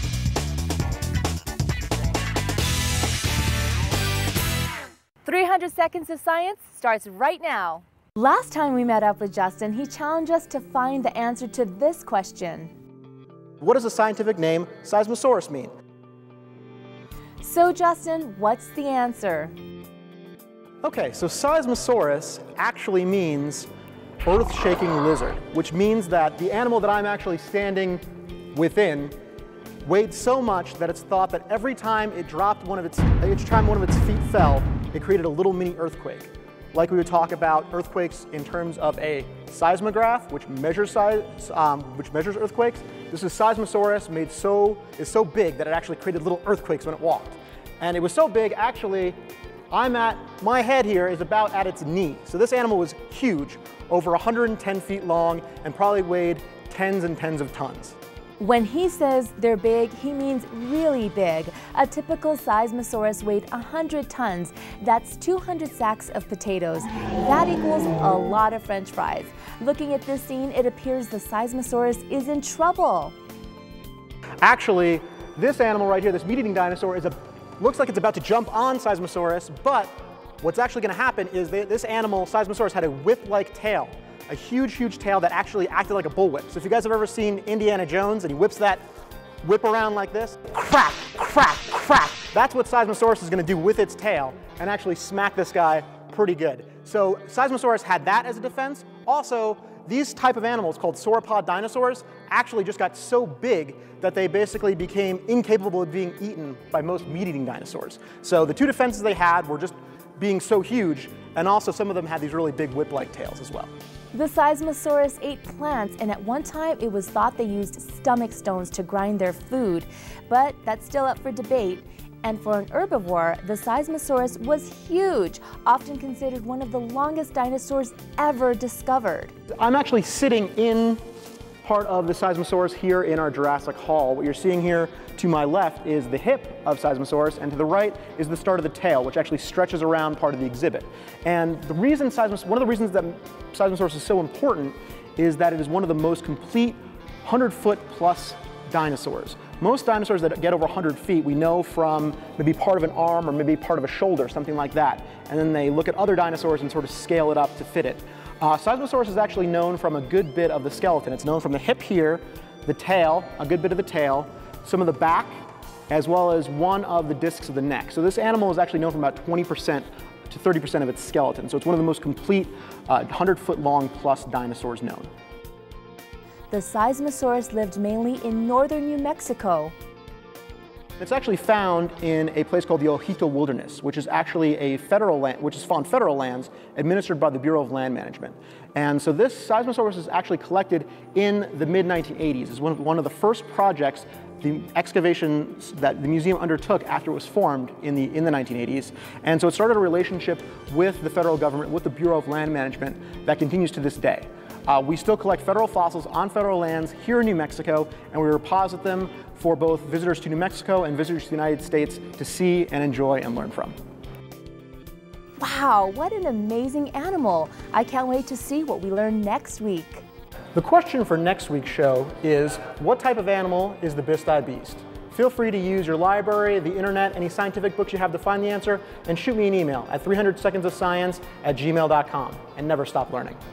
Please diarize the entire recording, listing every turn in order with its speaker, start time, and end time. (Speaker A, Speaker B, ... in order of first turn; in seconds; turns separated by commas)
Speaker A: 5.2-12.7, Speaker B: 13.6-15.7, Speaker A: 17.4-19.5, Speaker B: 20.8-23.7, Speaker B: 24.2-28.0, Speaker B: 28.5-29.1, Speaker B: 29.8-49.1, Speaker B: 49.7-58.0, Speaker A: 58.4-73.1, Speaker B: 74.4-88.8, Speaker B: 89.4-113.7, Speaker A: 114.1-129.3, Speaker B: 129.6-131.0, Speaker B: 131.6-175.1, Speaker A: 176.5-179.7, Speaker B: 181.0-213.7, Speaker A: 215.4-220.0, Speaker B: 220.5-233.4